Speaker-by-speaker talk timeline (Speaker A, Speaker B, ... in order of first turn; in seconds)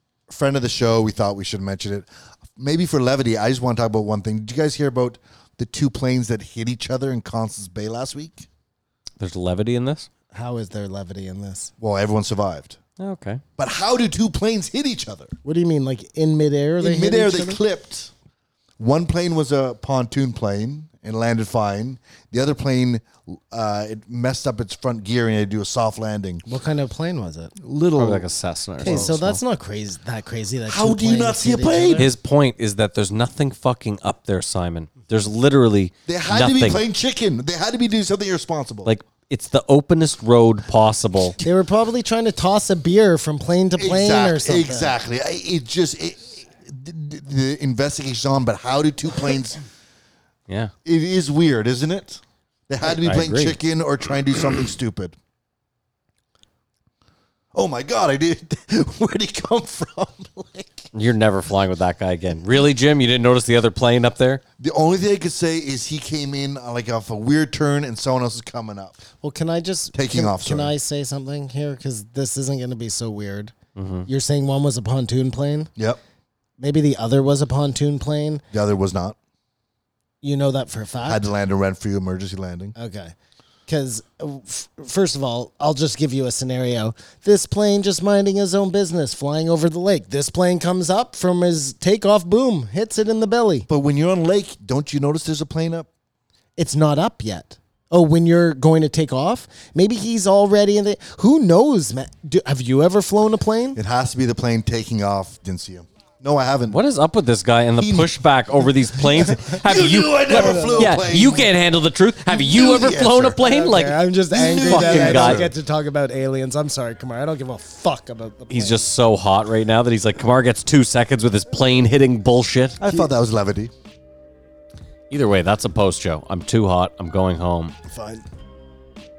Speaker A: 0.3-8.5, 11.8-12.8, 13.6-15.3, 16.8-18.1, 18.8-26.4, 27.6-28.2, 28.8-29.2, 30.6-32.1, 36.1-38.9, 43.7-49.6, 50.8-55.2, 57.5-60.9, 64.6-69.0, 69.9-70.7, 78.5-79.2, 81.0-82.7, 93.7-95.9, 103.7-106.8, 107.8-108.2, 109.2-111.5, 112.3-113.4, 114.3-115.5, 122.8-123.7
Speaker B: 9.2-10.1, 13.0-13.4, 27.9-29.4, 32.0-36.8, 38.8-41.4, 52.8-53.6, 60.9-64.4, 73.8-74.1, 106.7-114.0, 114.6-115.5, 118.5-122.8, 125.1-127.7
Speaker C: 10.3-11.7, 15.4-17.6, 26.4-27.5, 28.8-32.1, 41.4-45.0, 69.2-73.5, 74.1-75.7, 76.6-78.4, 80.2-81.2, 82.8-83.1, 83.7-93.7, 96.5-103.8, 110.3-111.0, 113.4-118.9, 122.8-123.1, 127.9-128.2